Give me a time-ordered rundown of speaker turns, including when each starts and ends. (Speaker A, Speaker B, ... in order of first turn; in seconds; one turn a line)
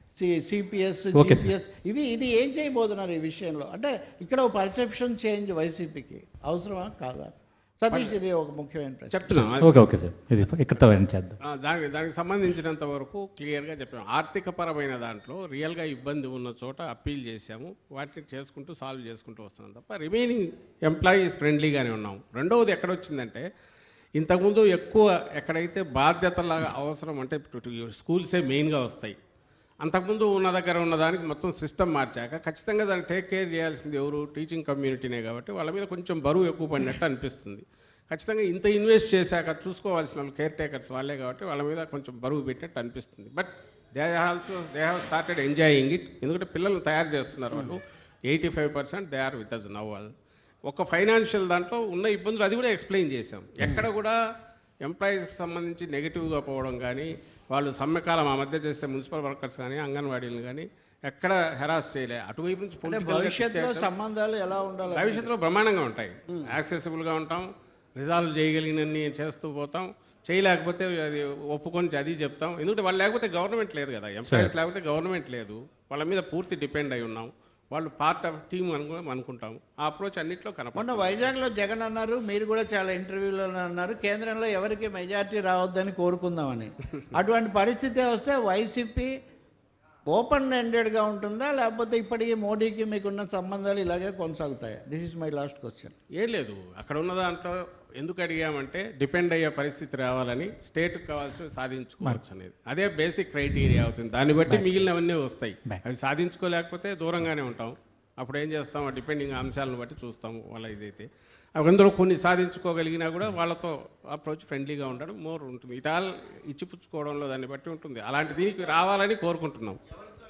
Speaker A: 0.1-9.5
Speaker B: 1.2-1.5
Speaker C: 9.1-9.8
Speaker B: 9.6-11.4
Speaker C: 11.4-23.5
Speaker C: 24.2-29.1
Speaker C: 29.8-50.1
Speaker C: 50.7-54.2
Speaker C: 54.9-63.9
Speaker A: 62.9-65.3
Speaker C: 64.9-81.3
Speaker B: 74.3-74.5
Speaker A: 80.8-89.1
Speaker A: 90.1-96.0
Speaker C: 96.2-119.8
Speaker B: 104.5-104.9